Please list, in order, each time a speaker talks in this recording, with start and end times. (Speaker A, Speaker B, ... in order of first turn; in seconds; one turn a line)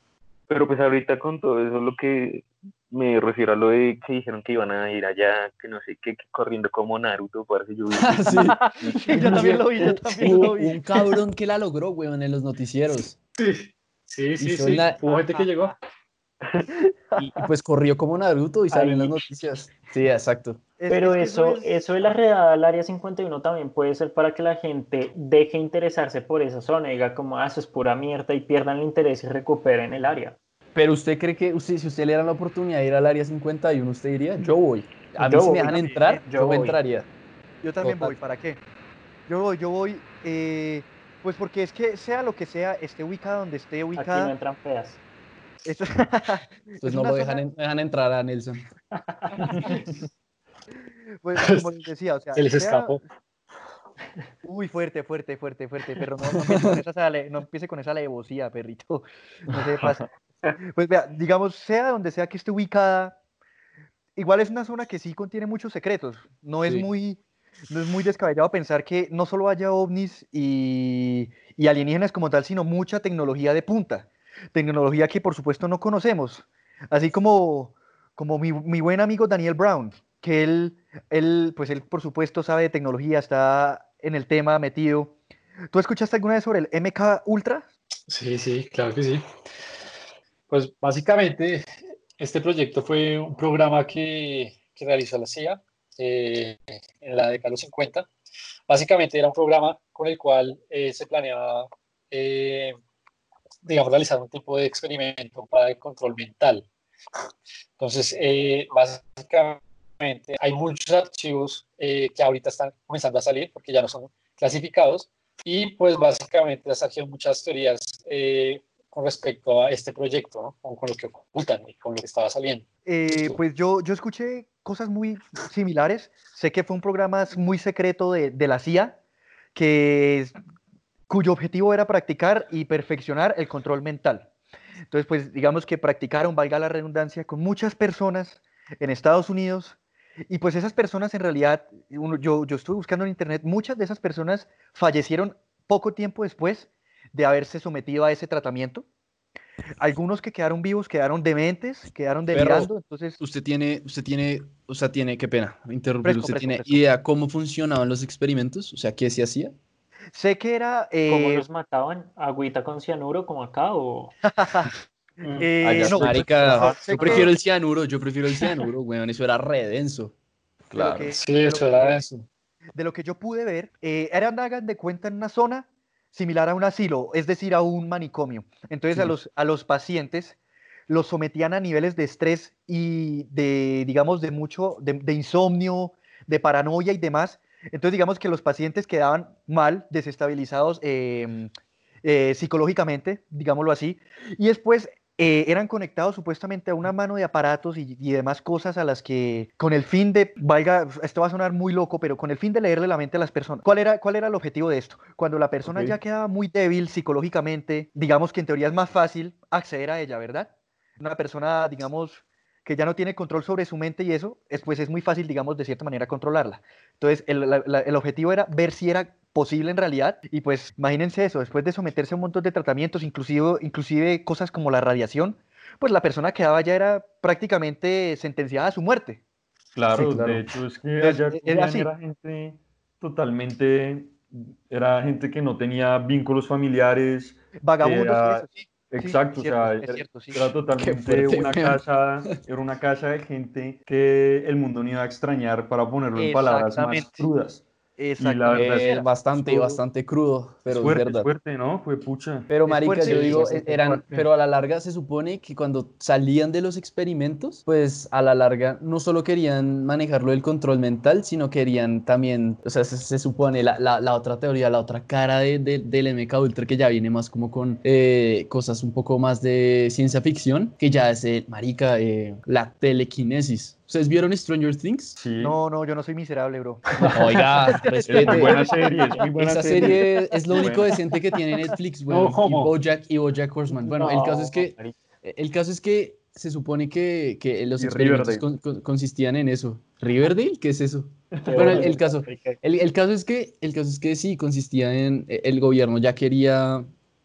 Speaker A: 0.5-9.4
Speaker B: 7.9-8.6
Speaker C: 8.3-10.9
Speaker B: 9.1-13.2
Speaker D: 13.4-15.8
Speaker B: 14.4-15.0
Speaker E: 15.1-15.7
Speaker A: 16.4-16.8
Speaker B: 17.2-20.6
Speaker E: 18.7-19.1
Speaker C: 20.8-21.8
Speaker E: 20.9-30.4
Speaker B: 30.8-37.1
Speaker E: 35.2-36.8
Speaker C: 35.6-36.0
Speaker C: 37.6-38.6
Speaker B: 37.8-38.2
Speaker C: 39.3-44.3
Speaker E: 44.0-45.0
Speaker C: 45.6-47.4
Speaker B: 46.8-48.7
Speaker E: 49.0-49.8
Speaker C: 51.2-53.0
Speaker D: 51.4-51.7
Speaker D: 52.3-53.0
Speaker C: 54.4-60.1
Speaker B: 56.4-56.8
Speaker C: 60.6-63.2
Speaker C: 64.2-85.1
Speaker C: 85.7-87.7
Speaker D: 88.1-89.2
Speaker D: 90.5-98.1
Speaker D: 98.7-102.8
Speaker D: 103.6-106.7
Speaker D: 107.8-123.4
Speaker C: 122.8-129.0
Speaker C: 129.6-130.3
Speaker C: 131.1-134.3
Speaker C: 134.9-139.8
Speaker C: 140.3-148.8
Speaker C: 149.8-153.2
Speaker B: 152.3-159.6
Speaker C: 156.0-156.8
Speaker C: 160.1-161.4
Speaker E: 161.1-164.2
Speaker C: 164.3-164.7
Speaker C: 165.4-167.3
Speaker F: 165.6-167.2
Speaker B: 165.8-170.1
Speaker F: 170.7-171.1
Speaker C: 170.8-172.0
Speaker D: 171.1-172.3
Speaker C: 172.8-180.4
Speaker C: 180.9-191.5
Speaker C: 192.0-229.2
Speaker F: 205.7-206.0
Speaker F: 229.7-247.7
Speaker C: 229.9-230.4
Speaker C: 231.0-231.9
Speaker C: 237.6-240.5
Speaker B: 240.8-242.4
Speaker C: 246.2-247.3
Speaker C: 248.0-249.1
Speaker F: 248.2-249.8
Speaker B: 248.5-251.3
Speaker F: 250.7-253.3
Speaker B: 252.5-275.2
Speaker C: 252.6-254.1
Speaker F: 275.2-275.6
Speaker C: 275.4-279.0
Speaker B: 277.1-278.7
Speaker F: 278.0-281.1
Speaker B: 279.4-296.9
Speaker D: 282.1-282.7
Speaker E: 283.7-284.9
Speaker F: 287.8-288.4
Speaker F: 291.4-291.9
Speaker E: 291.4-292.6